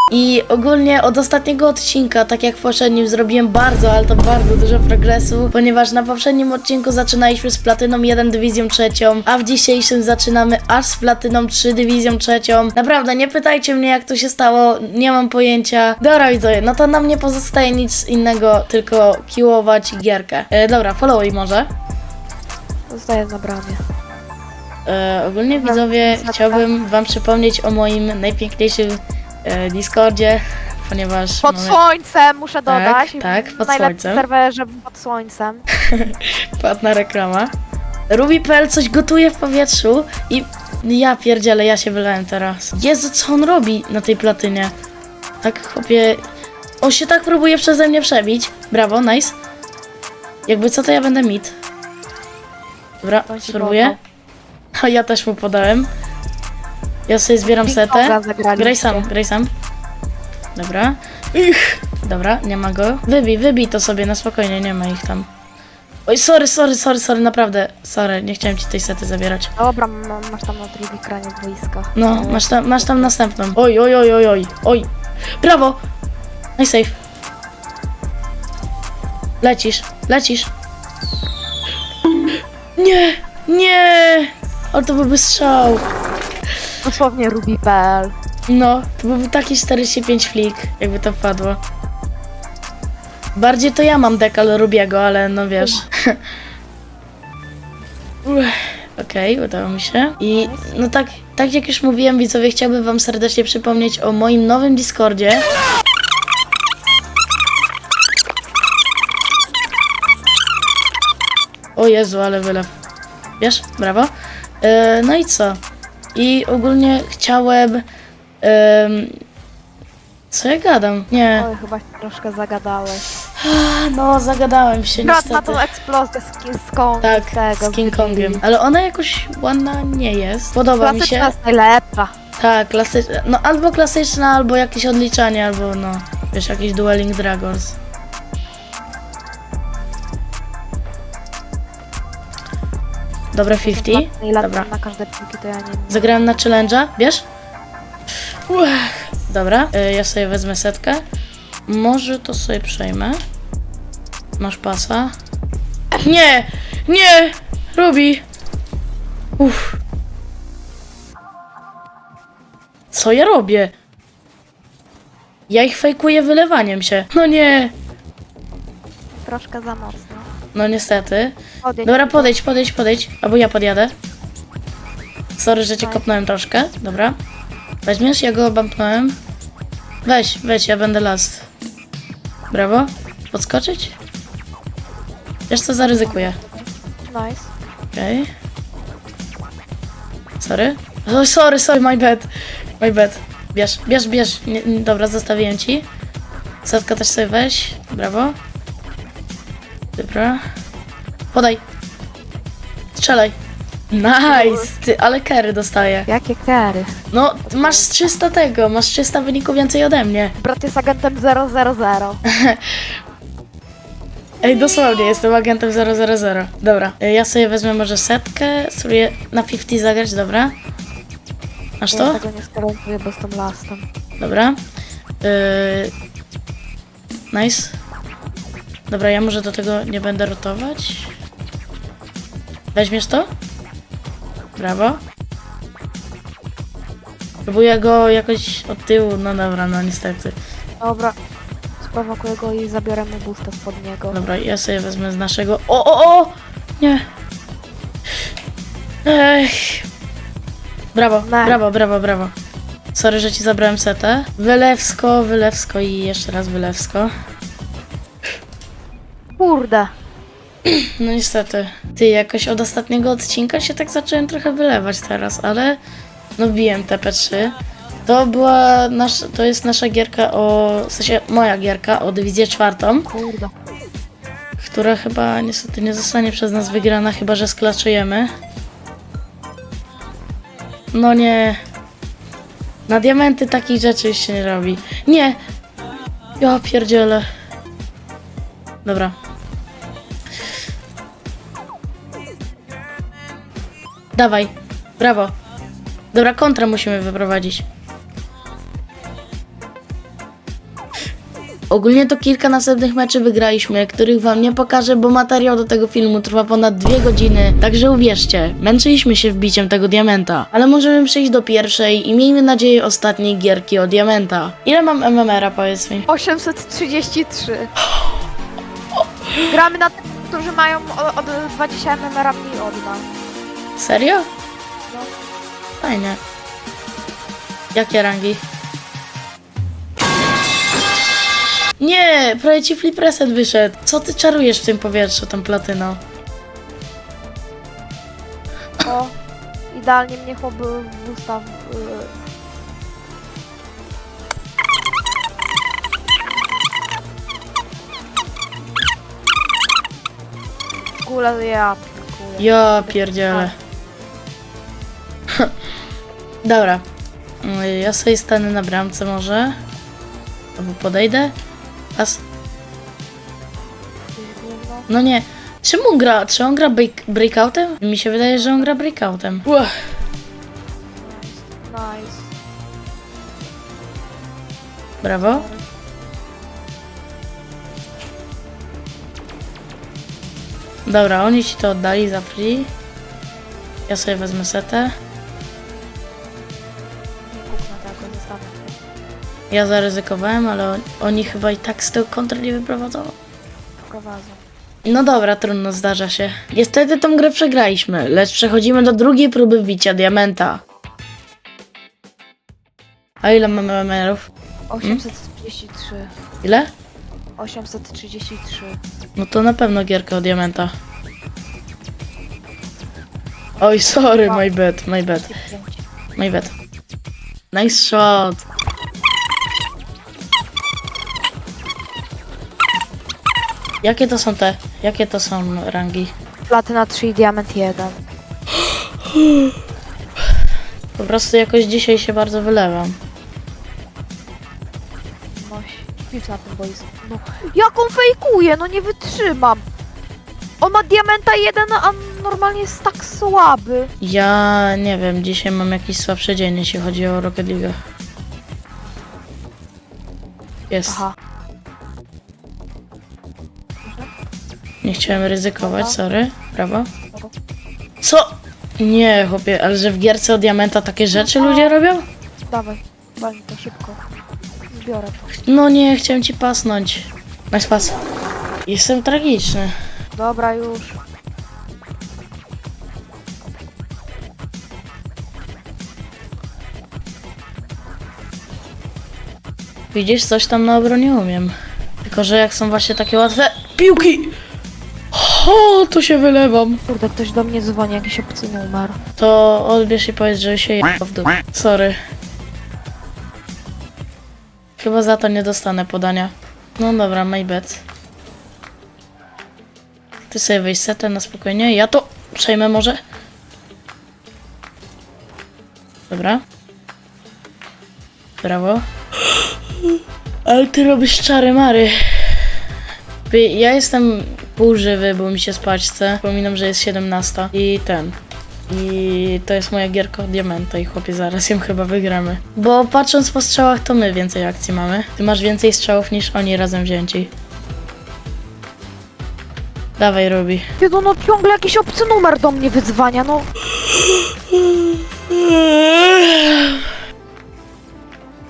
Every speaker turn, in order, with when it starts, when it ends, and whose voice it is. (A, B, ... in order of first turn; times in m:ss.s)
0:00.1-0:21.7 A
0:22.9-0:23.8 B
0:24.9-0:31.8 A
0:25.5-0:26.7 B
0:31.4-0:35.7 B
0:32.7-0:34.2 A
0:35.8-0:37.5 A
0:38.1-0:44.7 A
0:45.4-0:46.2 A
0:46.8-0:49.4 A
0:50.5-0:51.6 A
0:53.0-0:54.0 A
0:53.3-0:54.0 B
0:54.8-0:55.9 A
0:57.1-0:59.5 A
0:57.4-0:59.1 B
1:00.6-1:05.3 A
1:06.1-1:09.5 A
1:09.6-1:13.1 B
1:12.0-1:14.9 A
1:15.4-1:15.8 A
1:16.6-1:16.9 A
1:19.4-1:20.5 A
1:22.8-1:25.8 A
1:26.8-1:28.2 B
1:28.5-1:31.6 A
1:33.3-1:36.2 A
1:35.6-1:35.8 B
1:38.2-1:45.5 A
1:40.2-1:40.7 B
1:51.8-1:52.7 A
1:53.4-1:55.6 A
1:56.1-1:57.8 A
1:58.4-1:59.1 A
2:00.3-2:01.5 A
2:01.4-2:03.1 B
2:03.3-2:05.6 A
2:05.0-2:08.4 B
2:07.0-2:11.3 A
2:10.8-2:12.1 B
2:12.4-2:17.8 A
2:23.3-2:24.7 A
2:23.5-2:26.4 B
2:25.9-2:27.2 A
2:28.5-2:31.0 A
2:31.7-2:33.2 A
2:34.4-2:35.1 A
2:36.0-2:38.2 A
2:39.4-2:39.8 A
2:42.9-2:43.7 A
2:45.5-2:47.8 A
2:49.1-2:50.3 B
2:50.5-2:53.9 A
2:51.6-2:52.4 B
2:55.4-2:57.2 A
2:55.8-2:56.1 B
2:57.8-2:59.2 A
3:00.0-3:01.5 A
3:02.5-3:04.0 A
3:05.5-3:06.4 A
3:05.8-3:07.5 B
3:07.9-3:08.3 A
3:10.4-3:12.3 A
3:12.8-3:15.8 A
3:16.6-3:18.4 A
3:20.0-3:20.4 A
3:21.3-3:21.6 A
3:23.0-3:23.3 A
3:23.9-3:26.1 A
3:24.3-3:24.7 B
3:26.0-3:28.2 B
3:27.1-3:30.4 A
3:30.4-3:32.2 B
3:32.3-3:32.8 A
3:34.4-3:40.5 A
3:34.4-3:35.2 B
3:41.8-3:42.2 A
3:41.9-3:43.8 B
3:44.2-3:44.6 A
3:45.2-3:45.9 A
3:47.3-3:47.8 A
3:48.9-3:51.1 A
3:52.8-3:53.3 A
3:54.6-3:55.0 A
3:57.4-4:00.4 A
4:00.8-4:01.2 B
4:01.8-4:04.2 B
4:04.1-4:07.0 A
4:09.1-4:09.8 A
4:10.9-4:12.3 A
4:11.2-4:11.6 B
4:12.9-4:17.1 A
4:19.4-4:19.9 B
4:20.6-4:25.8 A
4:26.4-4:33.1 A
4:33.0-4:33.5 B
4:34.6-4:38.3 A
4:40.9-4:41.6 A
4:42.9-4:45.4 A
4:46.4-4:47.2 A
4:48.8-4:49.1 A
4:54.2-4:55.3 A
4:56.1-4:57.6 A
5:01.7-5:16.1 A
5:16.1-5:17.7 B
5:19.5-5:23.1 B
5:23.8-5:24.3 A
5:25.8-5:26.2 A
5:27.7-5:28.4 A
5:31.8-5:36.0 A
5:38.8-5:39.1 B
5:39.7-5:42.1 B
5:51.0-5:53.5 B
5:52.4-5:53.5 A
5:56.4-5:56.8 A
5:57.4-5:59.6 A
6:00.6-6:01.3 A
6:01.9-6:02.2 A
6:04.1-6:04.9 B
6:04.9-6:09.6 A
6:11.0-6:12.3 B
6:15.0-6:15.5 A
6:15.2-6:15.6 B
6:20.9-6:22.7 A
6:23.9-6:24.9 A
6:27.3-6:28.8 B
6:29.5-6:33.1 A
6:33.9-6:34.4 B
6:34.8-6:40.6 A
6:43.2-6:44.3 A
6:44.7-6:46.1 B
6:46.4-6:46.7 A
6:47.4-6:48.8 B
6:49.2-6:50.7 A
6:53.6-6:54.4 B
6:53.6-6:55.3 A
6:55.1-6:55.8 B
6:56.2-6:56.5 A
6:57.5-6:58.4 A
7:03.8-7:06.1 A
7:06.5-7:08.0 B
7:09.1-7:09.5 A
7:11.0-7:13.0 A
7:15.3-7:19.6 B
7:20.6-7:23.9 B
7:24.0-7:27.8 A
7:30.7-7:31.0 A
7:30.9-7:31.1 B
7:33.8-7:34.1 B
7:34.8-7:36.9 A
7:34.9-7:36.0 B
7:38.0-7:42.0 A
7:41.1-7:41.8 B
7:42.4-7:44.0 B
7:44.7-7:45.3 B
7:45.4-7:48.0 A
7:48.7-7:49.7 A
7:50.1-7:51.0 B
7:59.9-8:01.5 A
8:02.0-8:04.3 A
8:05.1-8:06.8 A
8:06.9-8:09.0 B
8:09.2-8:12.0 A
8:14.8-8:17.8 A
8:20.3-8:23.0 A
8:26.1-8:26.4 A
8:28.4-8:28.8 A
8:30.5-8:32.4 A
8:33.3-8:38.2 A
8:38.7-8:47.3 A
8:50.0-8:50.6 A
8:50.8-8:53.5 B
8:55.3-8:56.8 A